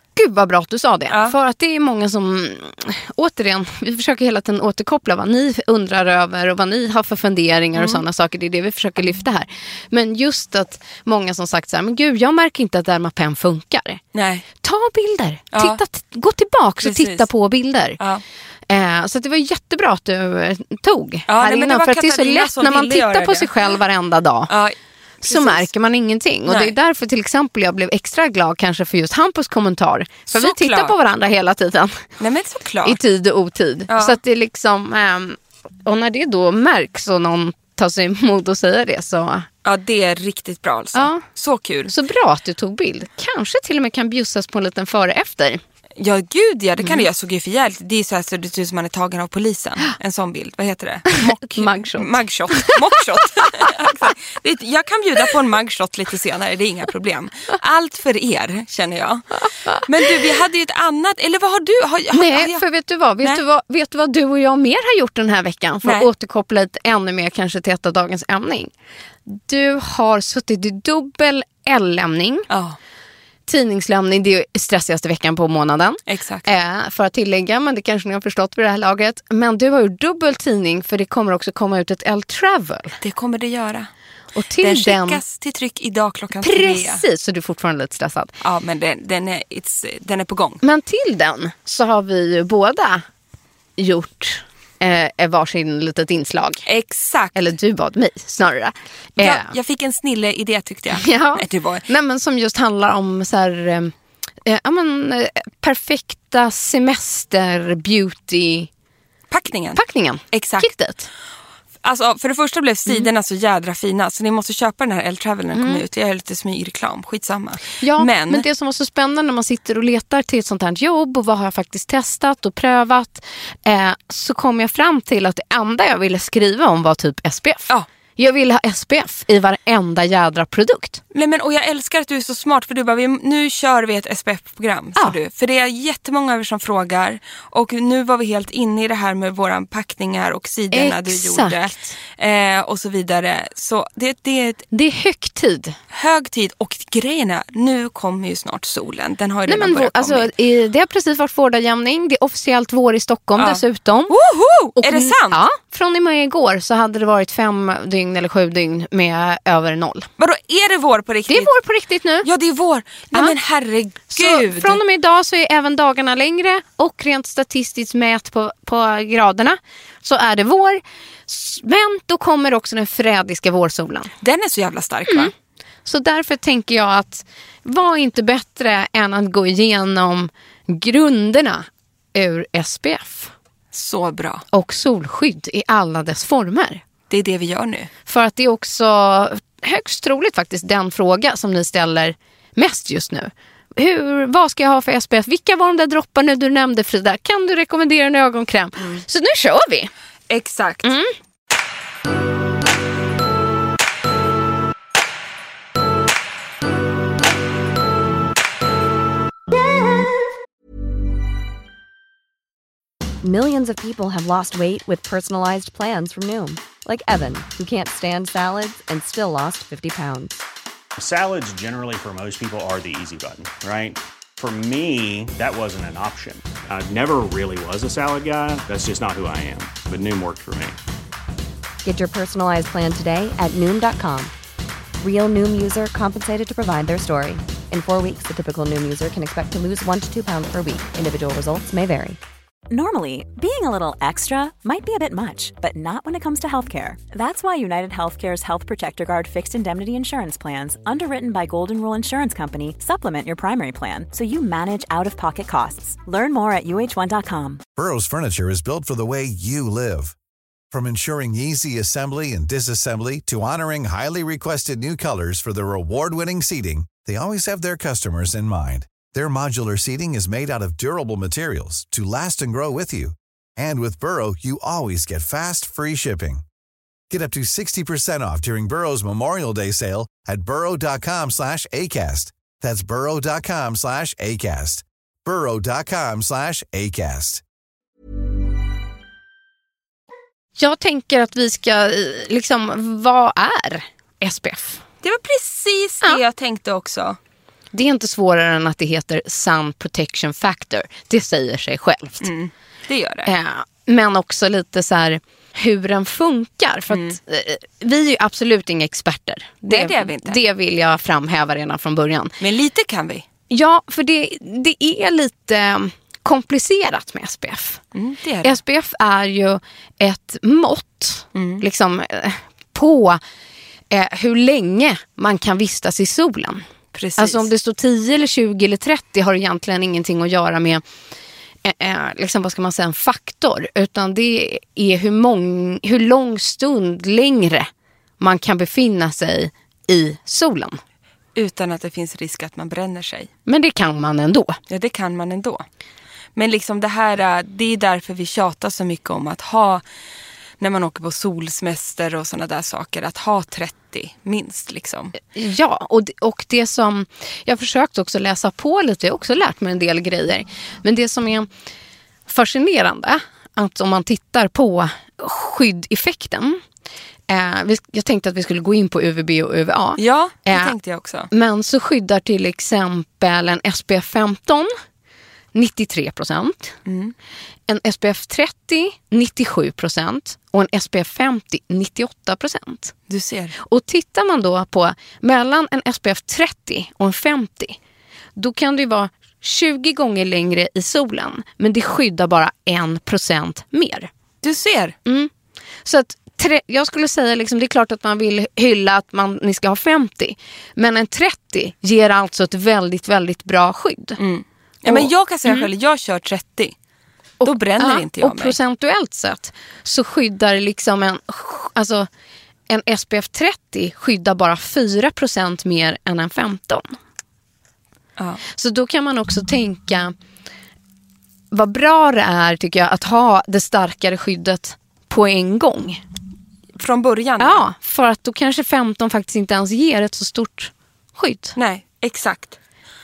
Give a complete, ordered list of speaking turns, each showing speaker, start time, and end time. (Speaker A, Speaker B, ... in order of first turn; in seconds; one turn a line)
Speaker A: 0.1-14.0
Speaker B: 1.1-1.3
Speaker B: 7.7-8.0
Speaker B: 14.1-14.4
Speaker A: 14.6-18.0
Speaker B: 15.5-15.8
Speaker B: 16.8-17.2
Speaker A: 18.7-24.5
Speaker B: 21.3-23.7
Speaker B: 24.5-25.7
Speaker A: 25.2-32.0
Speaker B: 26.4-26.7
Speaker B: 30.3-30.9
Speaker B: 32.2-33.0
Speaker A: 32.8-39.5
Speaker B: 33.9-34.2
Speaker B: 39.6-41.9
Speaker A: 40.9-41.2
Speaker A: 41.9-45.6
Speaker B: 46.0-62.6
Speaker A: 51.1-52.8
Speaker A: 62.1-68.7
Speaker A: 69.2-72.5
Speaker B: 72.5-72.8
Speaker A: 73.5-83.0
Speaker B: 76.1-76.5
Speaker B: 83.0-83.9
Speaker A: 84.3-85.2
Speaker B: 84.6-87.0
Speaker A: 86.4-88.3
Speaker B: 88.4-90.6
Speaker A: 90.6-93.0
Speaker A: 93.8-96.6
Speaker B: 96.7-97.3
Speaker A: 97.3-99.5
Speaker B: 99.2-101.8
Speaker A: 100.9-103.9
Speaker A: 104.4-108.7
Speaker B: 109.3-110.7
Speaker A: 109.8-111.1
Speaker B: 111.8-118.4
Speaker A: 115.5-115.8
Speaker A: 117.8-131.0
Speaker B: 131.1-144.6
Speaker A: 140.7-141.9
Speaker A: 144.7-145.8
Speaker B: 145.9-150.3
Speaker A: 149.5-154.1
Speaker B: 153.4-155.4
Speaker A: 154.8-160.1
Speaker B: 160.2-161.5
Speaker A: 161.3-162.3
Speaker B: 162.2-164.8
Speaker A: 164.1-174.1
Speaker B: 174.2-175.3
Speaker A: 175.8-183.3
Speaker B: 183.7-184.4
Speaker A: 184.5-186.8
Speaker B: 187.1-187.9
Speaker A: 188.1-199.9
Speaker B: 200.3-200.9
Speaker A: 200.8-201.1
Speaker C: 213.2-220.4
Speaker D: 221.0-230.8
Speaker C: 231.8-234.3
Speaker C: 235.0-242.2
Speaker E: 242.7-257.6
Speaker F: 257.8-260.1
Speaker F: 260.7-276.4
Speaker F: 277.1-287.4
Speaker A: 290.6-294.8
Speaker B: 295.0-297.2
Speaker A: 297.7-302.3
Speaker B: 302.2-303.3
Speaker A: 303.2-312.4
Speaker B: 306.9-307.2
Speaker B: 309.7-310.4
Speaker B: 312.4-313.2
Speaker A: 313.5-317.8
Speaker B: 317.9-318.6
Speaker A: 318.4-323.2
Speaker B: 321.3-321.6
Speaker A: 323.9-326.6
Speaker B: 326.9-327.5
Speaker A: 327.2-330.8
Speaker A: 331.6-340.8
Speaker B: 341.3-343.3
Speaker A: 343.4-344.6
Speaker B: 344.7-345.6
Speaker B: 346.4-349.8
Speaker B: 350.6-355.1
Speaker A: 355.3-361.5
Speaker A: 362.3-366.6
Speaker A: 367.3-370.7
Speaker B: 370.0-371.3
Speaker A: 371.3-374.7
Speaker A: 375.5-376.7
Speaker B: 376.9-377.1
Speaker A: 377.7-382.9
Speaker B: 383.1-383.5
Speaker A: 383.6-387.8
Speaker A: 388.4-394.1
Speaker B: 394.4-394.9
Speaker A: 395.1-395.3
Speaker A: 395.8-404.2
Speaker B: 404.2-406.7
Speaker A: 404.9-405.7
Speaker A: 407.4-412.1
Speaker B: 407.4-408.5
Speaker A: 412.7-417.0
Speaker B: 418.2-418.4
Speaker A: 418.5-420.1
Speaker A: 421.5-426.0
Speaker B: 426.8-427.6
Speaker A: 427.4-431.6
Speaker B: 431.6-432.6